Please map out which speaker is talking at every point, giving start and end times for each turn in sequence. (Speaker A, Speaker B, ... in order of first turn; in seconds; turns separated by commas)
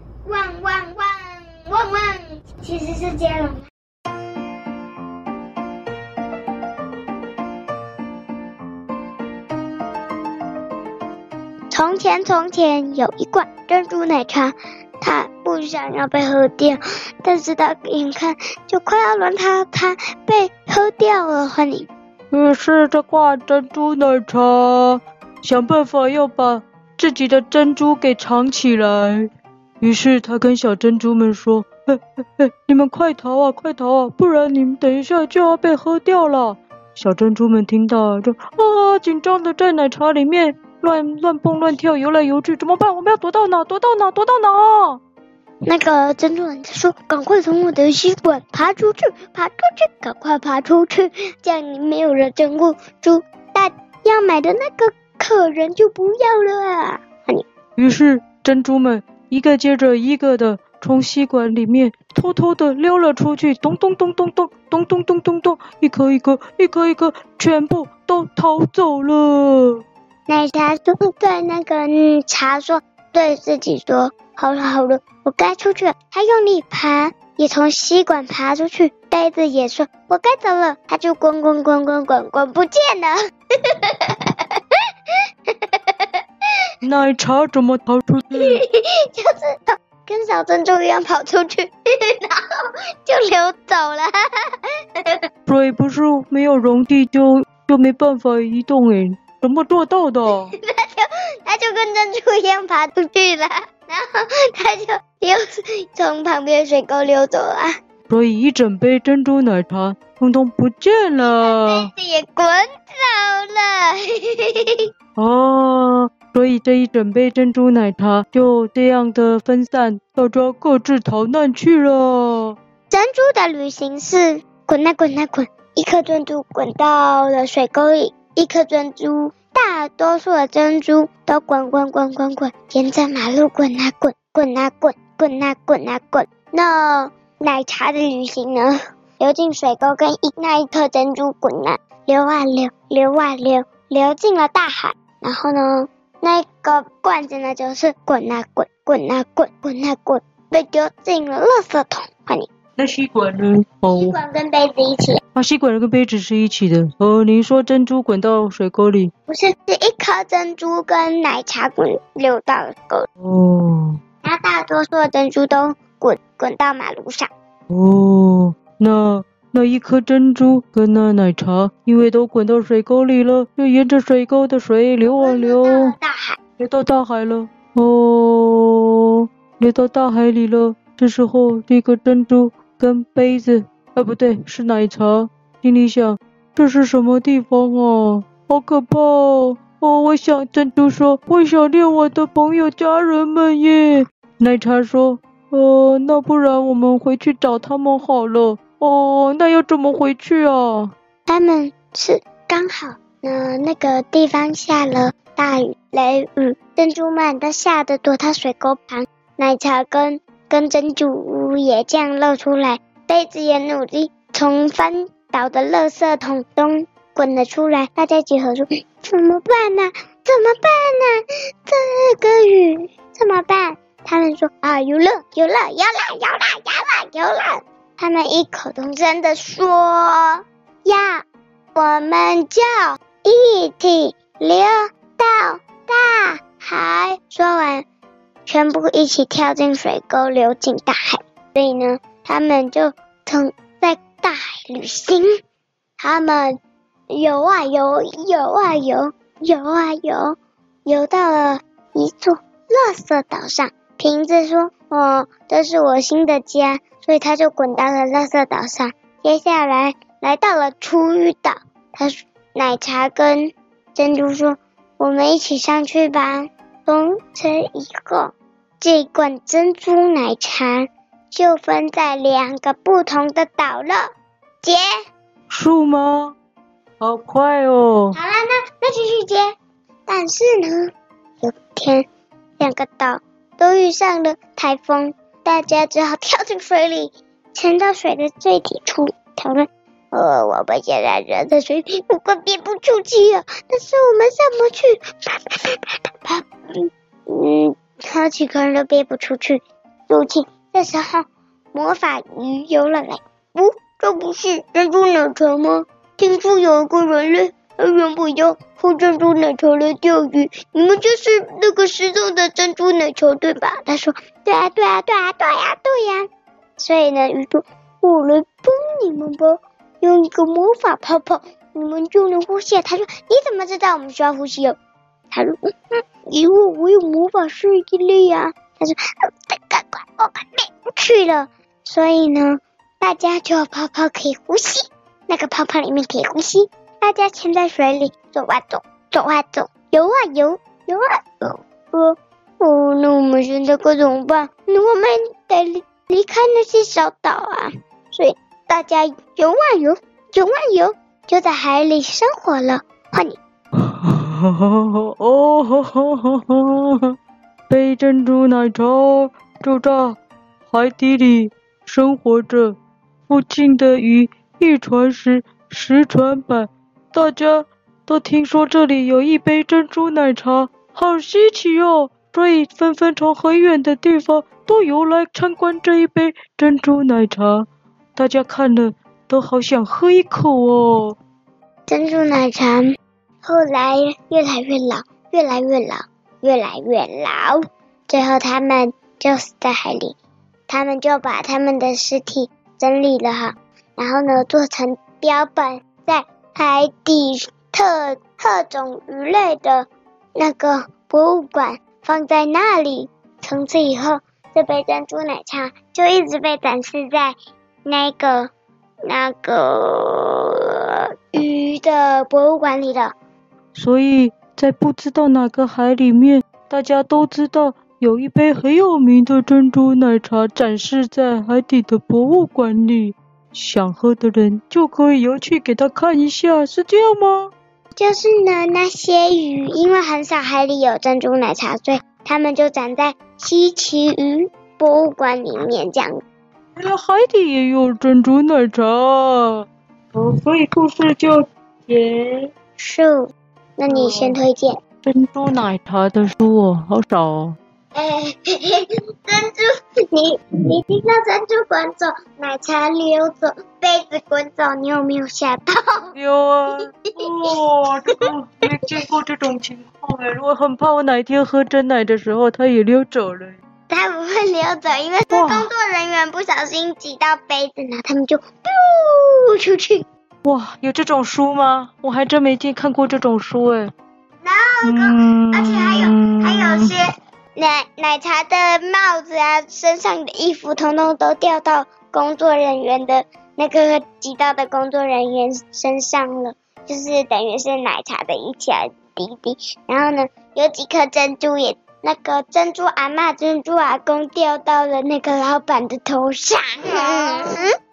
Speaker A: 0.2-3.6, Speaker A: 11.7-21.9, Speaker B: 22.3-29.3, Speaker B: 29.8-45.0, Speaker A: 45.6-57.4, Speaker B: 57.8-69.8, Speaker A: 70.3-84.8, Speaker A: 85.5-86.2, Speaker B: 86.8-88.6, Speaker A: 88.3-94.2, Speaker B: 95.5-100.5, Speaker A: 100.5-107.8, Speaker B: 108.1-111.9, Speaker A: 111.2-114.8, Speaker B: 115.2-122.6, Speaker A: 122.9-152.5, Speaker B: 152.8-154.2, Speaker A: 153.9-155.2, Speaker B: 155.3-159.1, Speaker A: 159.3-163.1, Speaker B: 163.2-164.0, Speaker A: 164.2-167.3, Speaker B: 167.7-175.9, Speaker A: 175.0-176.4, Speaker B: 176.6-200.9, Speaker A: 201.3-237.8, Speaker A: 238.4-245.4, Speaker A: 246.0-246.6, Speaker A: 247.1-274.1, Speaker A: 274.6-275.0, Speaker B: 275.5-276.3, Speaker B: 277.0-278.2, Speaker A: 278.1-279.5, Speaker A: 280.1-280.9, Speaker A: 281.4-282.1, Speaker A: 282.6-324.8, Speaker A: 325.3-353.4, Speaker B: 353.8-357.1, Speaker B: 357.7-360.2, Speaker B: 360.7-362.8, Speaker B: 363.3-381.2, Speaker A: 381.9-390.1, Speaker A: 390.7-408.5, Speaker A: 409.1-413.1, Speaker B: 413.7-427.5, Speaker A: 427.9-436.2, Speaker B: 436.8-442.5, Speaker A: 442.8-444.8, Speaker B: 443.9-444.4, Speaker B: 445.0-447.6, Speaker A: 447.9-456.1, Speaker B: 456.1-463.6, Speaker A: 463.9-470.0, Speaker B: 465.3-465.7, Speaker B: 470.4-473.9, Speaker A: 474.4-497.7, Speaker B: 474.8-476.9